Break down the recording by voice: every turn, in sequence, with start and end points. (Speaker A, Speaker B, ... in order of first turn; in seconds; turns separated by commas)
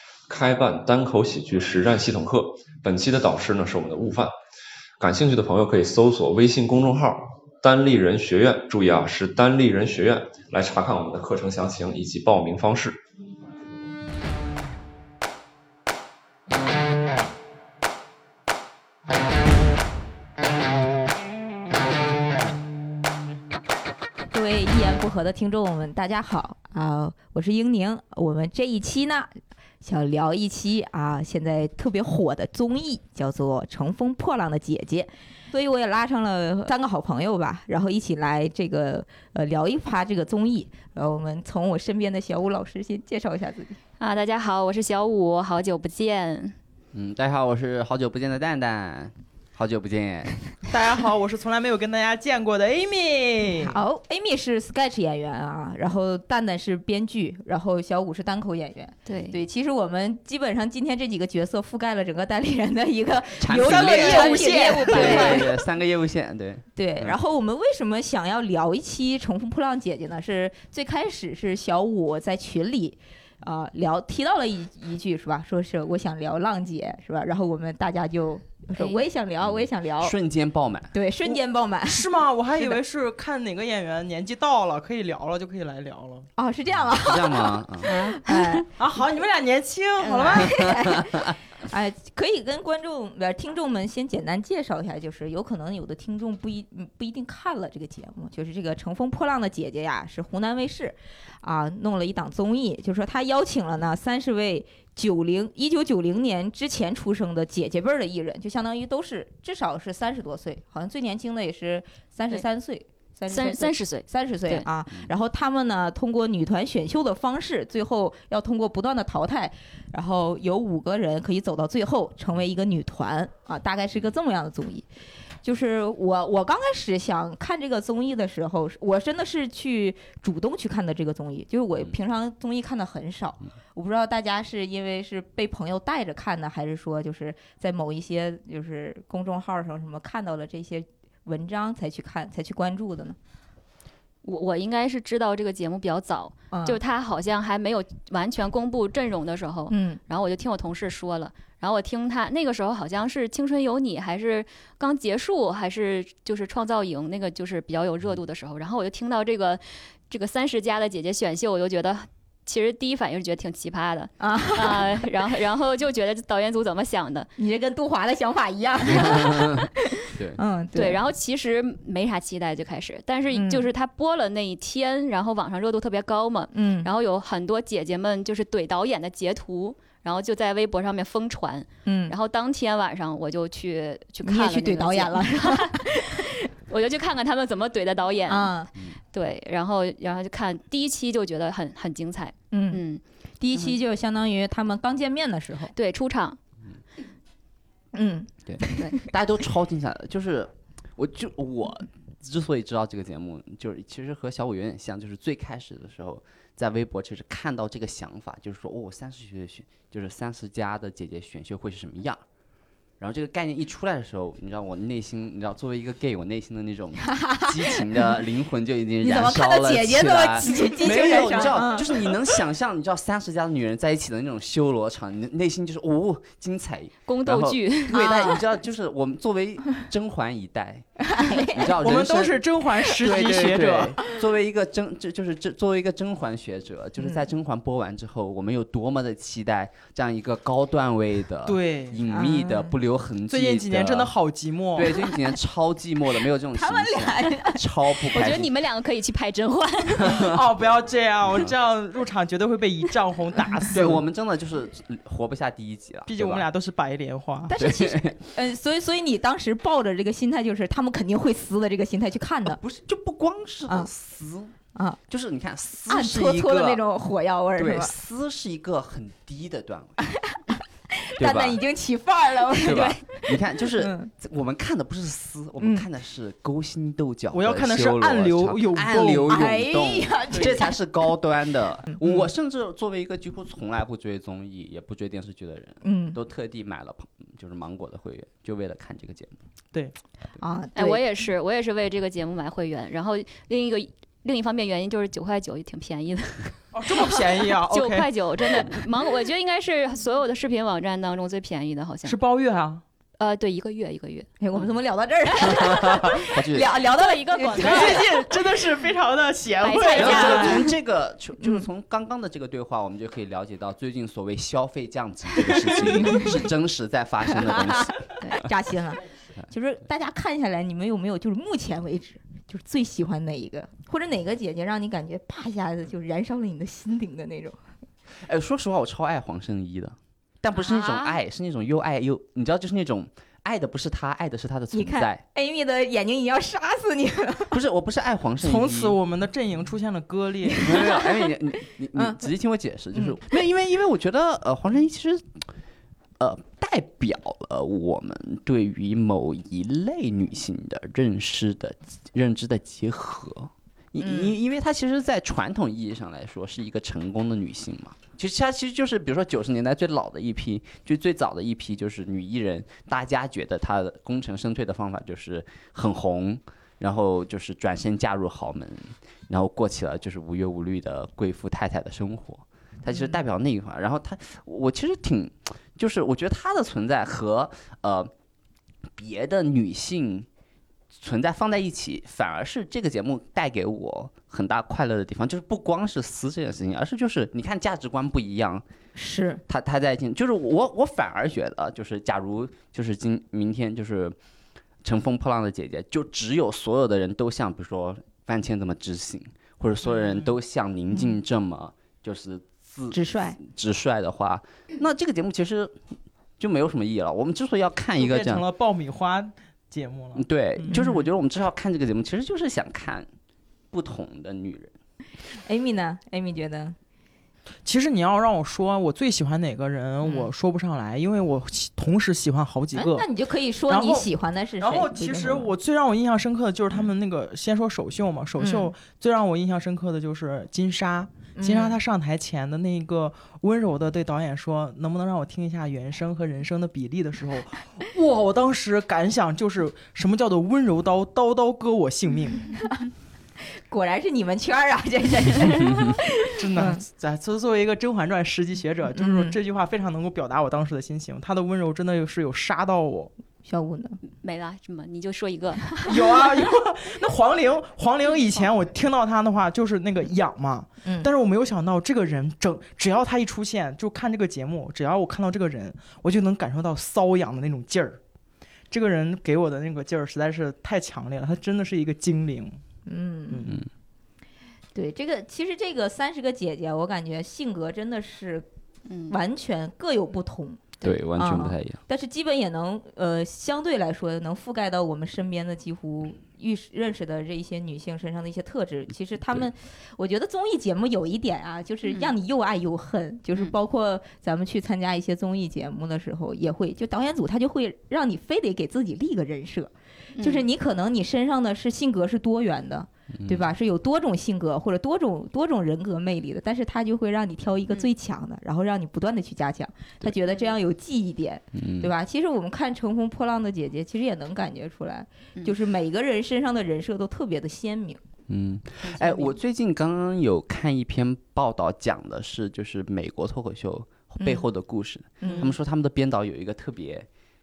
Speaker A: 0.3-4.3, Speaker A: 5.0-13.0, Speaker B: 24.3-43.8, Speaker C: 44.0-46.6, Speaker D: 46.9-50.3, Speaker E: 50.7-53.8, Speaker B: 53.6-65.6, Speaker C: 59.1-59.4, Speaker D: 63.4-67.2, Speaker E: 63.5-65.4, Speaker C: 64.8-65.4, Speaker B: 66.8-80.2, Speaker D: 79.4-80.9, Speaker B: 80.9-82.8, Speaker E: 81.2-86.3, Speaker B: 86.4-88.7, Speaker D: 86.8-87.9, Speaker C: 87.8-88.6, Speaker E: 88.8-90.6, Speaker B: 90.0-124.9, Speaker D: 90.5-91.3, Speaker C: 113.3-114.7, Speaker B: 125.4-143.2, Speaker C: 144.2-167.3, Speaker B: 146.5-146.8, Speaker B: 149.7-150.0, Speaker B: 164.2-164.9, Speaker B: 167.4-171.0, Speaker D: 168.9-170.4, Speaker C: 170.8-188.5, Speaker B: 173.3-173.7, Speaker B: 176.5-176.9, Speaker B: 181.8-182.2, Speaker B: 184.2-186.3, Speaker B: 188.3-188.7, Speaker C: 189.1-193.0, Speaker B: 192.5-192.8, Speaker B: 193.4-195.7, Speaker C: 195.7-196.4, Speaker B: 197.9-199.1, Speaker D: 198.5-212.2, Speaker D: 213.0-232.4, Speaker B: 217.1-217.8, Speaker B: 219.0-222.2, Speaker C: 227.1-228.4, Speaker B: 227.9-228.4, Speaker B: 231.1-231.8, Speaker E: 231.8-234.0, Speaker D: 233.0-244.1, Speaker B: 237.0-237.2, Speaker E: 241.5-242.0, Speaker B: 242.1-242.7, Speaker E: 243.3-245.0, Speaker D: 244.8-248.5, Speaker B: 246.5-247.6, Speaker C: 248.1-250.3, Speaker D: 250.0-250.4, Speaker E: 250.2-254.0, Speaker D: 253.7-256.5, Speaker E: 256.1-257.5, Speaker B: 257.5-262.6, Speaker D: 257.6-258.2, Speaker D: 262.4-264.6, Speaker D: 265.1-266.8, Speaker B: 265.9-267.9, Speaker D: 267.6-270.0, Speaker B: 270.3-274.1, Speaker D: 271.2-271.6, Speaker D: 272.5-289.4, Speaker B: 275.6-275.9, Speaker E: 277.3-279.4, Speaker B: 279.3-281.1, Speaker B: 285.8-286.2, Speaker B: 290.4-291.0, Speaker C: 290.8-302.2, Speaker E: 296.7-298.1, Speaker E: 302.1-302.8, Speaker C: 303.2-304.3, Speaker B: 304.4-308.1, Speaker D: 305.5-306.7, Speaker C: 306.8-308.3, Speaker E: 307.5-310.6, Speaker C: 309.6-310.7, Speaker D: 309.9-318.1, Speaker B: 311.4-311.7, Speaker E: 315.5-315.8, Speaker B: 316.0-316.2, Speaker B: 317.3-327.6, Speaker D: 328.3-335.2, Speaker C: 330.5-331.2, Speaker B: 334.7-337.6, Speaker D: 337.5-339.0, Speaker E: 338.4-340.7, Speaker B: 340.4-341.3, Speaker D: 340.6-345.5, Speaker B: 341.9-342.3, Speaker B: 342.9-343.3, Speaker D: 346.2-378.1, Speaker B: 354.0-354.4, Speaker D: 379.0-380.3, Speaker D: 380.9-388.6, Speaker B: 389.0-389.4, Speaker D: 389.5-394.2, Speaker D: 394.8-405.8, Speaker E: 399.9-400.3, Speaker B: 402.9-403.4, Speaker D: 406.4-408.5, Speaker E: 408.0-410.8, Speaker D: 410.1-413.1, Speaker B: 410.7-411.1, Speaker D: 413.7-414.8, Speaker B: 415.4-416.8, Speaker E: 417.6-423.1, Speaker B: 422.8-425.5, Speaker E: 423.7-424.1, Speaker E: 424.6-442.5, Speaker B: 428.4-428.7, Speaker B: 431.4-431.8, Speaker B: 442.5-442.9, Speaker B: 443.7-446.8, Speaker E: 446.4-453.1, Speaker B: 449.0-449.4, Speaker B: 453.4-454.0, Speaker C: 454.1-455.8, Speaker E: 455.9-468.0, Speaker B: 460.8-461.1, Speaker E: 468.7-472.6, Speaker B: 472.9-473.5, Speaker E: 473.3-473.6, Speaker B: 474.8-478.4, Speaker C: 478.9-479.2, Speaker B: 479.1-518.0, Speaker D: 480.8-481.8, Speaker C: 491.9-492.1, Speaker C: 500.2-500.5, Speaker D: 503.1-503.5, Speaker C: 510.3-510.5, Speaker D: 511.6-511.9, Speaker D: 518.3-527.1, Speaker C: 518.8-519.3, Speaker B: 524.2-524.5, Speaker B: 525.2-525.5, Speaker C: 525.2-525.5